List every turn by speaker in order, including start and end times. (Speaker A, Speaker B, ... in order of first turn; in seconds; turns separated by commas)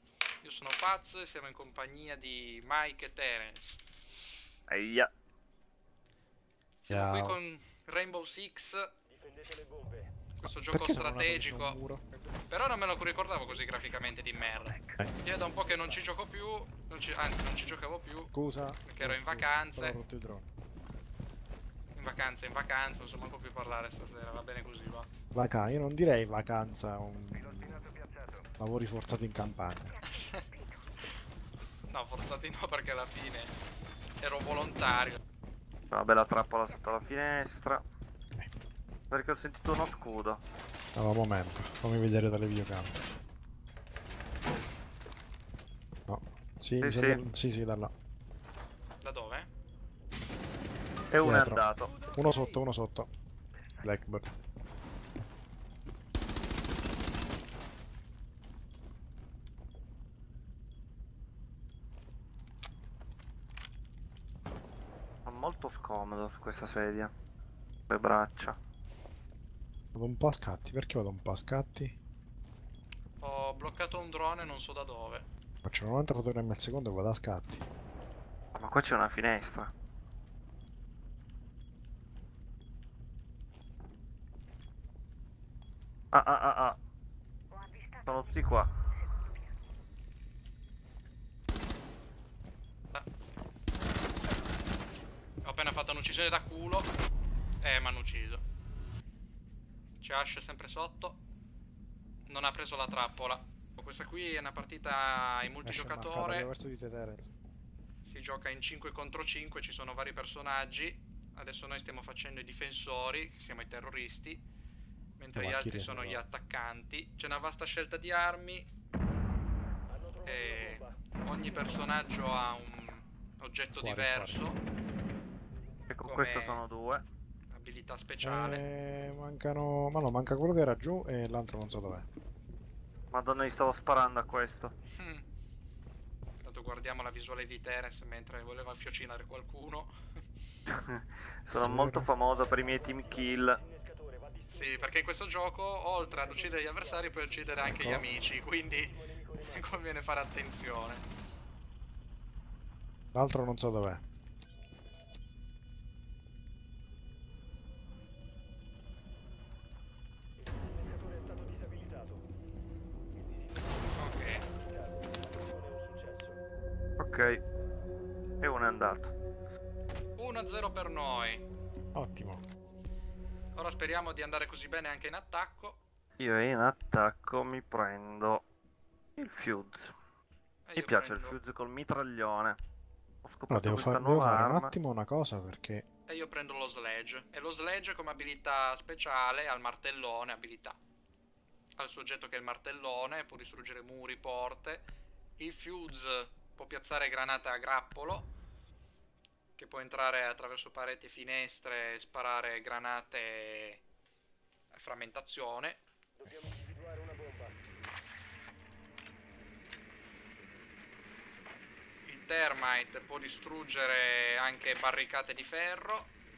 Speaker A: 0.4-3.8, Speaker B: 4.7-5.1, Speaker A: 6.8-8.9, Speaker C: 6.9-7.4, Speaker A: 10.4-11.8, Speaker C: 10.4-12.0, Speaker A: 12.5-18.3, Speaker C: 18.3-20.5, Speaker A: 18.8-20.0, Speaker A: 21.9-25.1, Speaker C: 25.3-27.9, Speaker C: 28.6-30.0, Speaker A: 30.1-30.5, Speaker A: 31.9-33.5, Speaker A: 34.2-35.2, Speaker B: 35.9-37.8, Speaker B: 39.1-40.4, Speaker C: 41.0-43.0, Speaker C: 46.1-47.9, Speaker B: 46.8-47.2, Speaker A: 49.0-49.5, Speaker B: 51.1-52.0, Speaker C: 51.2-53.1, Speaker C: 53.8-54.3, Speaker B: 65.3-67.1, Speaker B: 67.9-68.6, Speaker C: 70.0-72.0, Speaker A: 73.2-75.3, Speaker C: 75.7-77.7, Speaker B: 78.5-79.7, Speaker B: 86.1-86.8, Speaker B: 88.0-88.7, Speaker A: 95.4-96.9, Speaker A: 97.6-98.4, Speaker A: 100.0-101.2, Speaker A: 102.3-106.5, Speaker C: 105.6-107.3, Speaker A: 108.0-114.4, Speaker A: 115.2-118.7, Speaker C: 115.3-116.2, Speaker A: 120.2-124.6, Speaker C: 123.7-124.5, Speaker B: 125.9-127.0, Speaker A: 126.0-126.6, Speaker A: 127.5-128.7, Speaker C: 128.2-132.1, Speaker B: 133.1-134.7, Speaker A: 134.9-135.2, Speaker A: 136.4-140.0, Speaker B: 140.7-143.6, Speaker C: 141.6-142.1, Speaker A: 144.5-151.0, Speaker C: 147.7-148.1, Speaker C: 153.1-154.0, Speaker A: 164.0-164.4, Speaker B: 167.0-167.4, Speaker B: 168.4-169.1, Speaker A: 170.2-171.4, Speaker C: 171.9-172.4, Speaker A: 173.6-175.8, Speaker B: 176.2-178.4, Speaker B: 179.2-180.0, Speaker A: 180.7-181.4, Speaker B: 180.8-182.6, Speaker B: 183.2-184.7, Speaker C: 183.5-185.8, Speaker A: 186.1-190.8, Speaker A: 191.8-194.8, Speaker A: 195.4-198.3, Speaker A: 199.6-203.8, Speaker A: 204.7-205.8, Speaker A: 212.1-216.1